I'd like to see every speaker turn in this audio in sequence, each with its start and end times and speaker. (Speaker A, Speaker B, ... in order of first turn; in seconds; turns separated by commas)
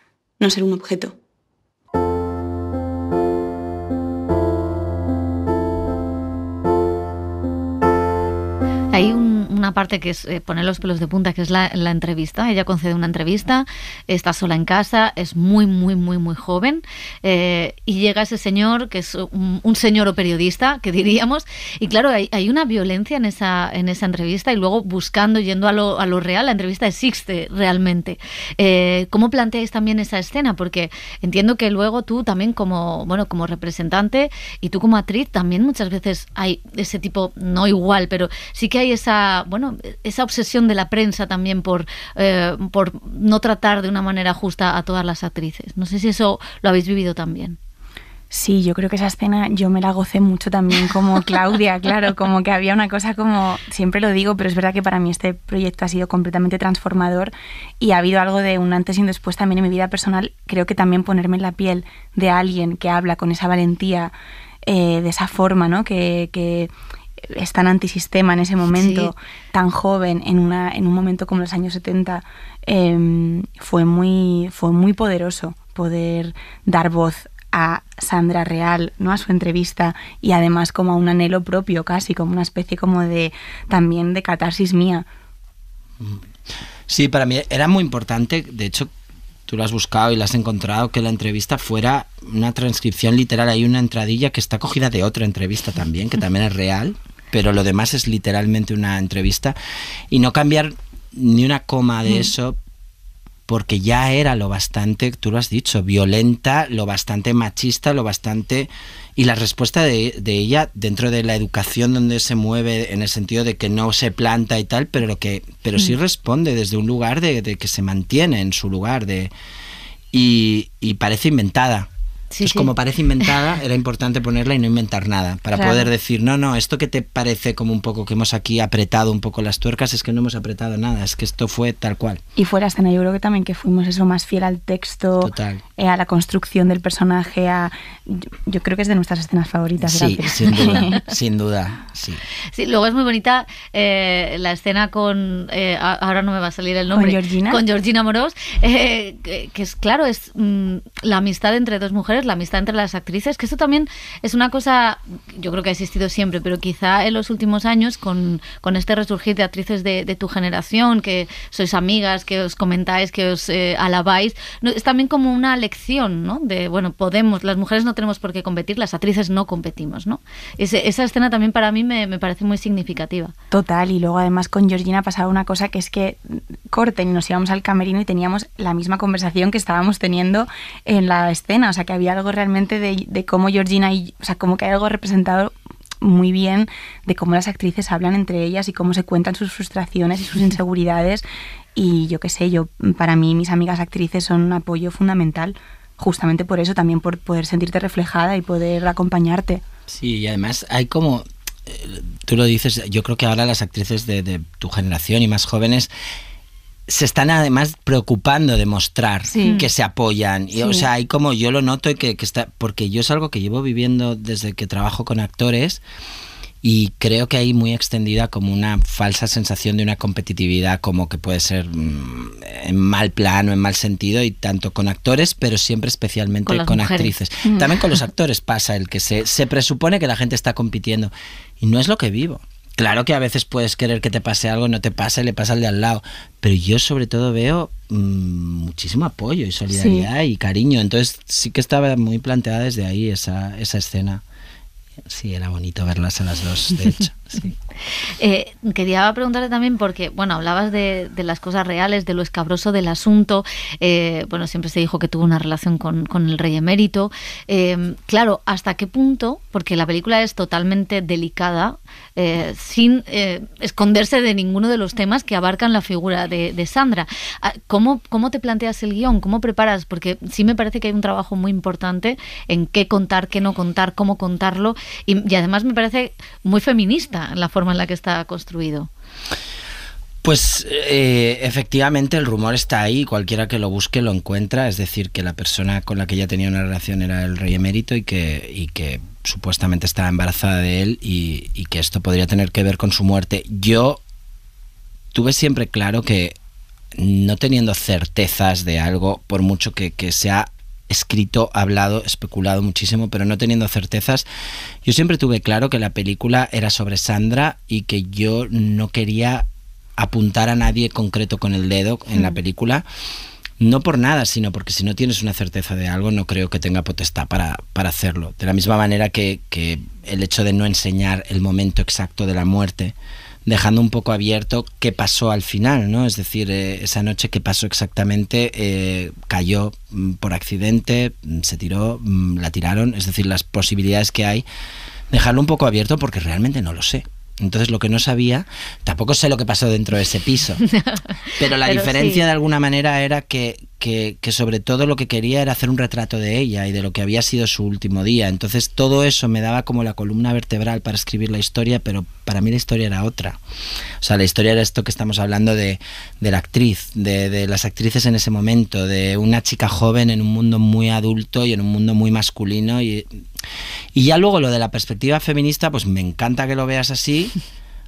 Speaker A: 0.4-1.1, Speaker B: 8.9-47.6, Speaker A: 48.3-66.7, Speaker A: 67.2-85.0, Speaker B: 68.7-69.1, Speaker C: 86.9-88.9, Speaker C: 89.5-99.6, Speaker C: 100.1-102.6, Speaker C: 103.5-119.3, Speaker C: 120.1-121.9, Speaker B: 122.3-122.7, Speaker C: 122.4-132.2, Speaker A: 125.5-125.9, Speaker A: 132.4-141.0, Speaker C: 135.2-135.6, Speaker C: 139.8-142.2, Speaker B: 142.5-173.3, Speaker A: 146.9-147.6, Speaker A: 173.5-191.2, Speaker A: 191.8-199.6, Speaker C: 199.9-205.9, Speaker C: 206.9-215.8, Speaker A: 209.3-209.7, Speaker B: 209.4-209.7, Speaker A: 210.6-210.9, Speaker C: 216.6-244.2, Speaker B: 226.4-227.2, Speaker A: 239.7-240.1, Speaker C: 245.1-247.6, Speaker B: 248.2-278.9, Speaker C: 280.2-294.0, Speaker C: 295.1-296.4, Speaker C: 297.0-304.3, Speaker C: 304.9-309.5, Speaker C: 310.0-312.9, Speaker C: 313.6-322.9, Speaker C: 323.5-334.4, Speaker C: 335.1-340.6, Speaker B: 340.6-342.2, Speaker C: 341.4-353.4, Speaker C: 354.0-363.2, Speaker C: 363.9-367.4